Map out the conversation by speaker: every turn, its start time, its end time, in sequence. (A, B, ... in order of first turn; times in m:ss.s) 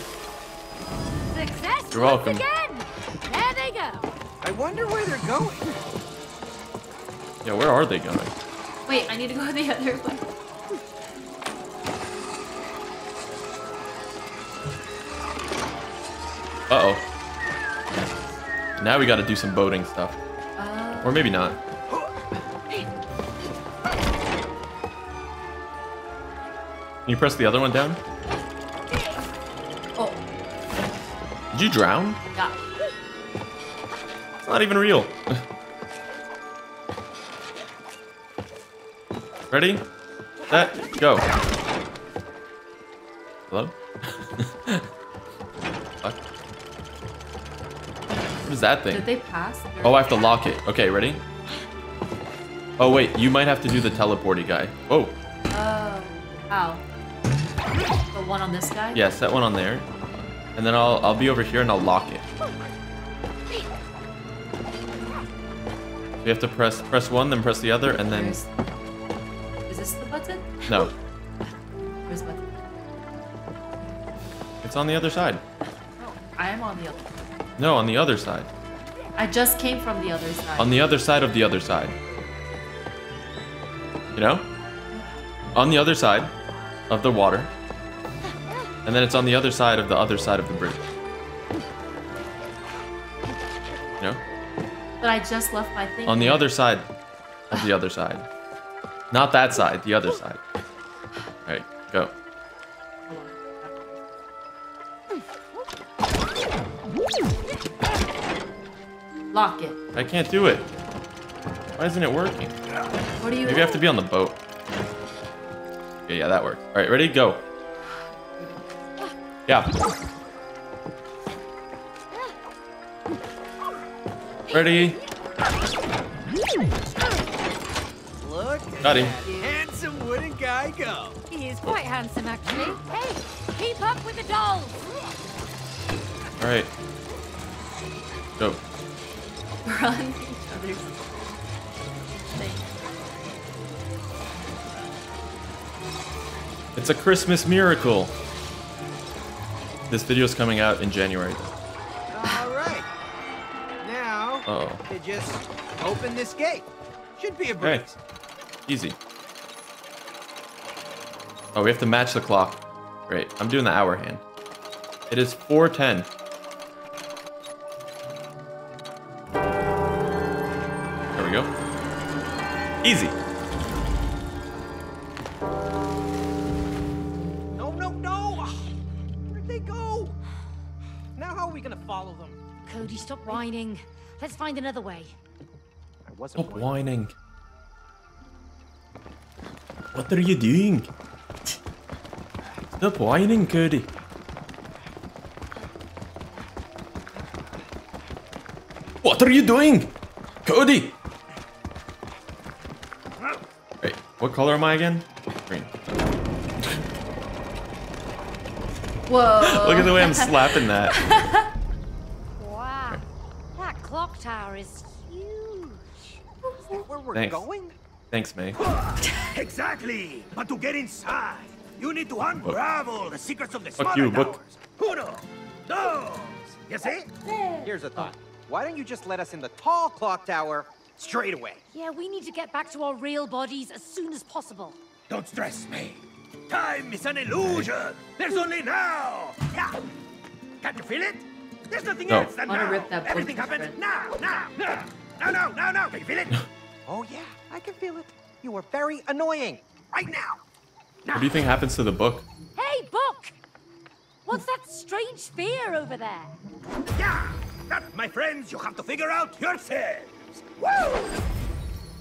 0:01.3-0:04.1 A
0:01.9-0:02.4 B
0:04.4-0:05.8 C
0:07.4-0:08.3 B
0:08.8-0:10.3 D
0:16.7-0:17.0 B
0:18.8-0:20.2 B
0:20.6-0:21.3 D
0:21.0-0:21.6 B
0:27.0-0:28.0 B
0:31.5-0:32.2 B
0:34.4-0:35.4 B
0:39.5-0:39.8 B
0:40.5-0:41.3 B
0:43.5-0:44.9 B
0:48.4-0:49.1 B
0:48.9-0:50.4 D
0:49.8-0:51.2 B
0:52.8-0:55.2 B
0:55.5-0:56.8 D
0:58.1-0:59.0 D
0:58.9-0:59.9 B
1:00.6-1:02.2 B
1:06.2-1:08.4 B
1:08.0-1:08.5 D
1:09.7-1:10.6 D
1:10.6-1:10.9 B
1:12.0-1:12.7 D
1:14.6-1:15.4 B
1:16.0-1:17.3 D
1:17.6-1:18.5 B
1:19.1-1:20.8 D
1:20.6-1:22.0 B
1:24.1-1:24.4 B
1:25.5-1:26.3 B
1:26.9-1:27.5 B
1:28.8-1:30.8 B
1:35.0-1:36.5 D
1:36.0-1:36.9 B
1:37.5-1:38.3 B
1:39.1-1:40.4 B
1:41.4-1:42.1 B
1:43.1-1:44.0 D
1:49.3-1:49.9 D
1:49.9-1:50.6 B
1:51.8-1:52.6 B
1:53.2-1:53.9 D
1:53.4-1:54.4 B
1:56.0-1:57.4 B
1:58.1-1:58.9 D
1:59.5-1:59.7 B
2:04.5-2:05.0 B
2:08.2-2:11.2 C
2:08.8-2:09.2 B
2:08.8-2:09.6 D
2:11.3-2:14.8 A
2:16.4-2:16.7 B
2:19.6-2:21.1 D
2:22.2-2:22.8 D
2:26.8-2:28.1 B
2:29.9-2:31.5 B
2:32.1-2:32.9 C
2:33.8-2:38.0 C
2:34.4-2:34.8 B
2:37.6-2:37.9 B
2:38.7-2:39.0 B
2:41.5-2:44.2 B
2:45.1-2:46.1 B
2:51.1-2:51.5 B
2:52.8-2:53.2 B
2:57.5-2:58.7 C
2:59.3-3:00.2 C
3:01.2-3:02.4 C
3:02.6-3:05.1 A
3:06.0-3:06.8 C
3:06.4-3:07.1 B
3:09.9-3:10.9 B
3:12.8-3:13.9 B
3:19.0-3:19.9 B
3:20.4-3:21.0 B
3:23.8-3:26.0 B
3:29.1-3:31.5 D
3:29.4-3:31.0 B
3:32.4-3:33.0 A
3:33.6-3:35.8 A
3:36.4-3:36.8 D
3:36.7-3:37.7 C
3:37.1-3:37.4 B
3:38.1-3:38.6 B
3:38.9-3:47.1 E
3:43.8-3:44.4 B
3:44.2-3:44.8 C
3:47.5-3:48.1 D
3:47.6-3:51.6 C
3:51.7-3:54.8 A
3:55.1-3:59.8 E
3:57.3-3:57.7 B
4:00.6-4:06.4 E
4:02.1-4:02.3 B
4:02.4-4:03.8 D
4:06.9-4:10.4 C
4:11.0-4:11.3 E
4:11.1-4:12.2 B
4:12.6-4:13.3 A
4:14.2-4:16.4 A
4:17.0-4:21.0 E